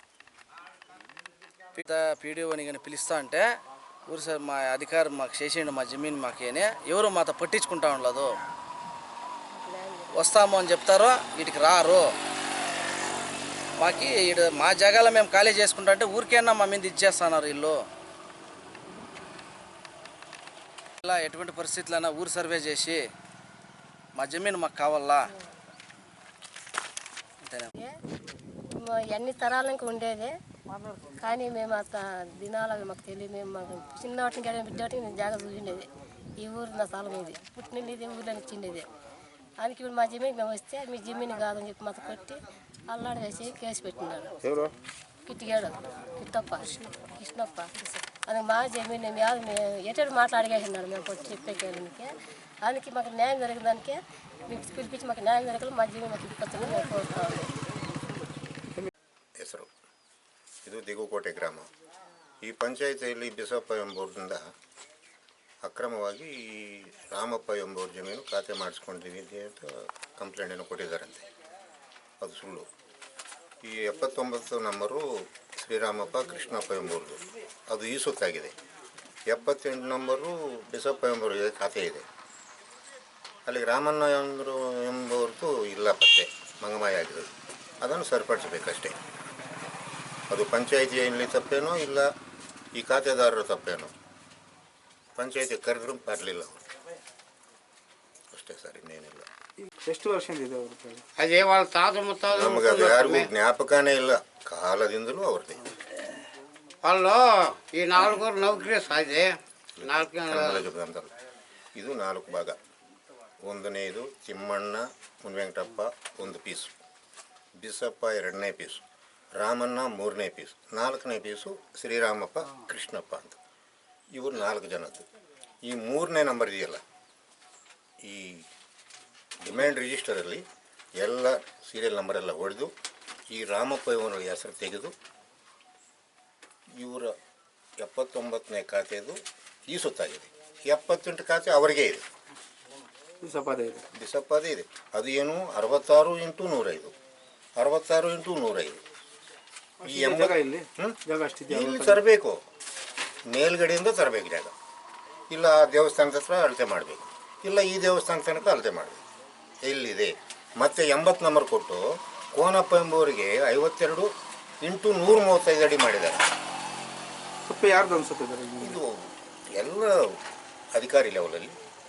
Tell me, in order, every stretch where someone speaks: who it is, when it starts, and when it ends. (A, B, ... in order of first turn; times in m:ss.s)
0:01.8-0:03.5 A
0:04.1-0:08.4 A
0:09.5-0:10.4 B
0:10.1-0:12.1 A
0:13.8-0:17.8 A
0:21.0-0:23.0 A
0:24.2-0:25.3 A
0:27.4-0:27.7 A
0:28.7-0:30.3 B
0:31.0-0:35.9 B
0:36.4-0:38.9 B
0:39.6-0:44.3 B
0:44.4-0:44.7 C
0:45.3-0:57.5 B
0:59.4-0:59.7 D
1:00.6-1:01.7 D
1:02.4-1:04.4 D
1:05.6-1:11.2 D
1:12.2-1:12.6 D
1:13.6-1:18.6 D
1:19.3-1:22.0 D
1:23.5-1:29.0 D
1:30.3-1:32.1 D
1:32.8-1:33.9 D
1:35.2-1:36.6 D
1:38.3-1:39.3 D
1:39.6-1:41.0 C
1:41.2-1:43.3 E
1:42.3-1:45.7 D
1:46.8-1:50.6 E
1:49.8-1:51.1 D
1:51.8-1:52.6 D
1:53.4-1:56.7 D
1:57.6-1:58.8 D
1:59.4-2:03.4 D
2:04.2-2:05.1 D
2:05.7-2:06.8 D
2:08.0-2:08.5 D
2:09.4-2:10.4 D
2:11.0-2:12.7 D
2:13.3-2:14.9 D
2:16.8-2:17.2 D
2:17.8-2:22.0 D
2:23.2-2:23.8 C
2:24.0-2:26.9 D
2:27.6-2:28.8 D
2:29.8-2:32.0 C
2:29.8-2:31.0 D
2:31.5-2:32.4 D
2:33.3-2:34.5 D
2:35.3-2:39.0 D
2:39.6-2:44.1 D
2:44.6-2:46.3 D
2:47.4-2:48.8 C
2:48.6-2:50.2 D
2:50.8-2:51.6 D